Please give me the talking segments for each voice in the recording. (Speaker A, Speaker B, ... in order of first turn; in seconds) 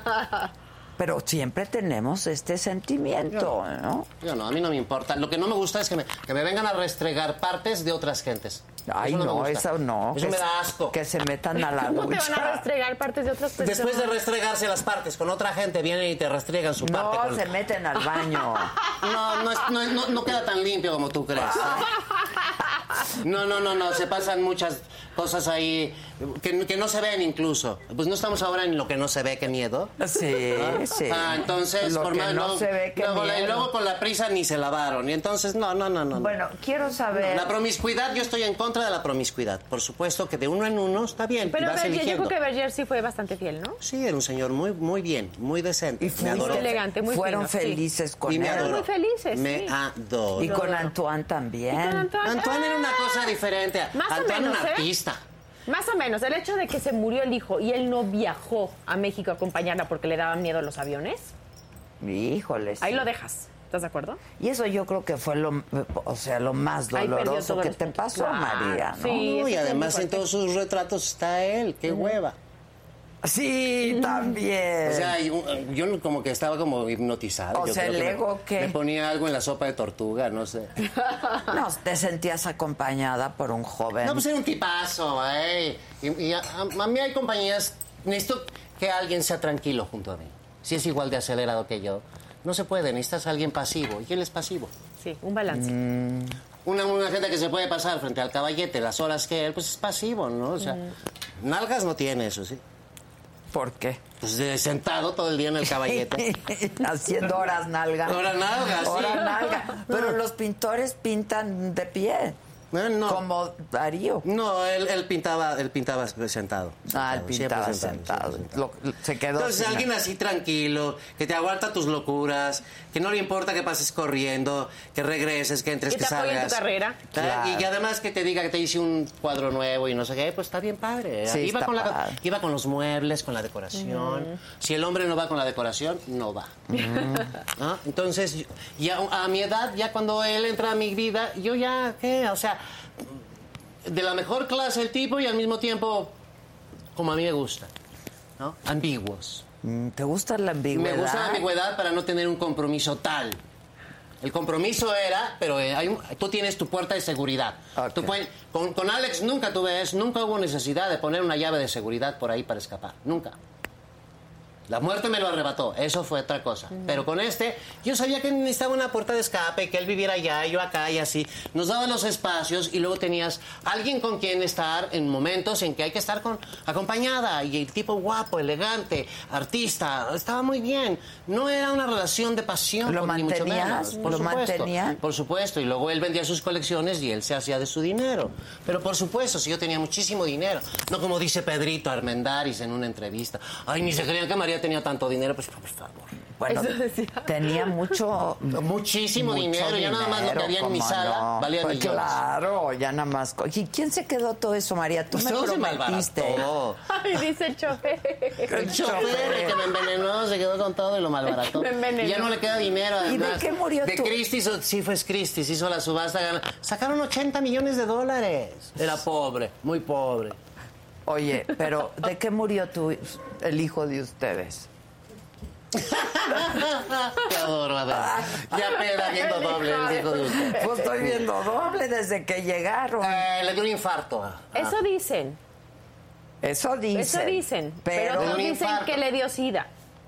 Speaker A: 1.0-4.1, 8.9-12.7, 16.8-18.8, 21.4-21.8, 30.0-33.7, 36.1-37.5, 46.0-48.8, 50.4-52.1, 62.0-63.1, 64.4-69.3, 73.2-75.2, 77.5-78.8, 81.5-84.2, 95.5-96.4, 103.5-104.0, 105.7-112.4, 113.1-114.2, 116.9-119.9, 127.1-127.7, 131.3-132.2, 136.7-137.3, 149.6-151.5, 157.8-158.2, 182.8-185.0, 196.4-206.5, 208.5-209.6, 213.0-214.2, 221.1-224.7, 227.9-228.3, 230.4-233.3, 236.4-238.4
Speaker B: 4.2-11.0, 13.6-17.5, 18.9-21.9, 23.1-30.0, 30.5-36.4, 37.1-42.3, 43.8-46.8, 48.3-50.6, 52.2-55.2, 69.1-72.3, 74.8-80.9, 84.0-94.7, 96.7-100.8, 101.4-102.6, 104.2-106.3, 108.0-110.2, 112.7-113.2, 114.2-118.6, 119.4-136.6, 137.6-143.2, 143.8-146.1, 146.9-147.7, 148.4-149.4, 150.7-153.4, 154.2-163.4, 164.7-196.1, 198.5-202.2, 205.1-206.8, 208.6-220.4, 225.7-230.6, 233.0-234.8, 238.1-239.0
Speaker C: 11.6-14.1, 41.5-43.8, 46.2-47.8, 48.4-49.7, 50.4-50.9, 51.7-53.3, 53.9-54.9, 55.7-61.3, 62.8-64.2, 66.9-70.2, 95.0-95.8, 100.6-100.9, 125.9-127.0, 133.8-134.3, 196.5-197.9, 206.9-209.6, 211.3-212.4, 229.0-230.7, 234.5-235.4, 236.9-239.7